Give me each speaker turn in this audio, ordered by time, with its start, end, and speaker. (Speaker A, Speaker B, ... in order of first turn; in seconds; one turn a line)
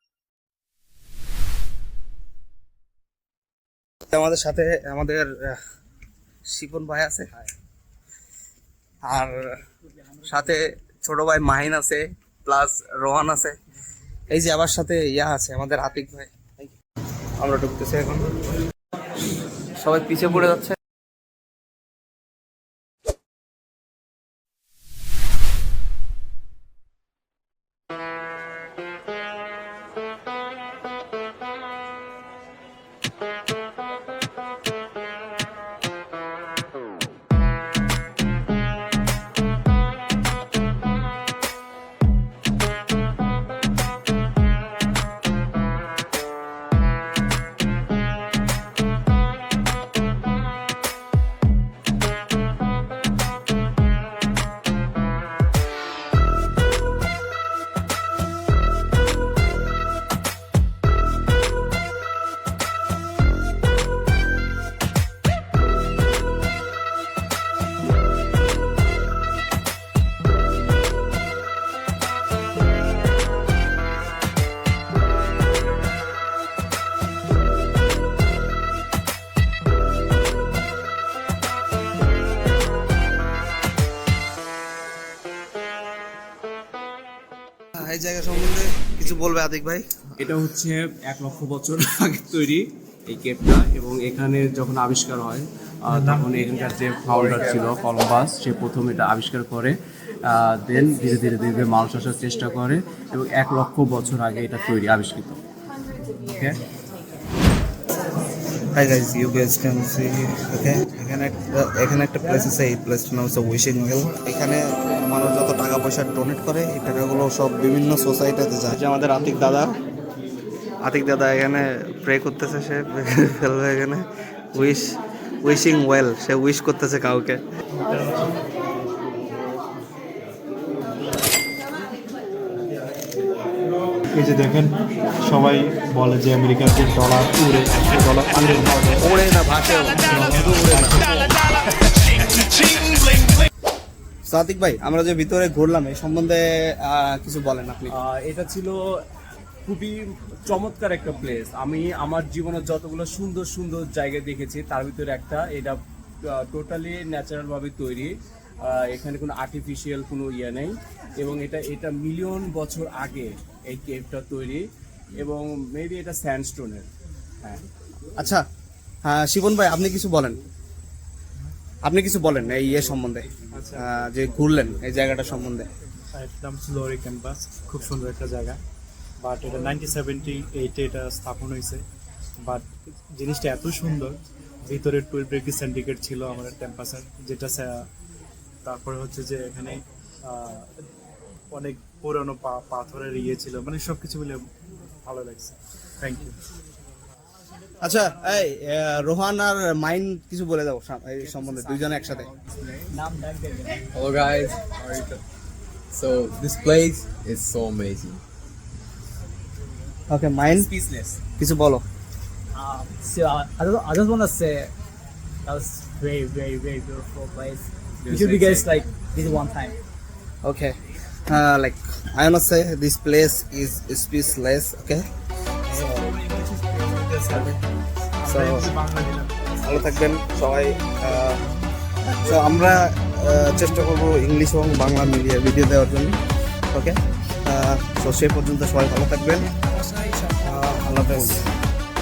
Speaker A: 4.1-5.6
Speaker A: 6.5-7.5
Speaker A: 9.0-9.6
Speaker A: 10.2-13.6
Speaker A: 14.3-16.7
Speaker A: 17.4-18.3
Speaker A: 19.8-20.8
Speaker A: 87.8-90.3
Speaker B: 90.2-105.4
Speaker C: 97.1-97.7
Speaker B: 106.3-106.6
Speaker A: 108.7-119.7
Speaker A: 120.8-127.4
Speaker D: 127.9-128.2
Speaker D: 134.1-139.1
Speaker A: 138.9-141.2
Speaker D: 140.0-141.2
Speaker A: 144.2-147.9
Speaker B: 148.0-148.8
Speaker B: 149.7-164.6
Speaker B: 165.1-166.9
Speaker A: 168.2-168.4
Speaker A: 169.0-170.4
Speaker A: 171.8-175.7
Speaker D: 173.5-174.0
Speaker D: 176.2-178.6
Speaker D: 179.2-181.8
Speaker D: 182.4-187.8
Speaker D: 188.6-190.7
Speaker D: 191.5-194.4
Speaker D: 195.1-196.3
Speaker A: 197.8-202.3
Speaker B: 201.2-202.9
Speaker E: 202.9-203.9
Speaker C: 203.9-205.2
Speaker C: 205.9-208.2
Speaker A: 210.1-210.7
Speaker B: 210.5-211.2
Speaker A: 211.4-211.8
Speaker E: 212.5-214.7
Speaker E: 215.4-219.8
Speaker B: 218.0-218.8
Speaker A: 220.4-225.1
Speaker E: 226.0-227.2
Speaker A: 227.3-227.6
Speaker D: 228.2-229.8
Speaker A: 228.2-228.7
Speaker A: 229.6-231.4
Speaker A: 232.1-236.2
Speaker A: 236.7-239.5
Speaker B: 239.8-240.3
Speaker A: 240.4-241.4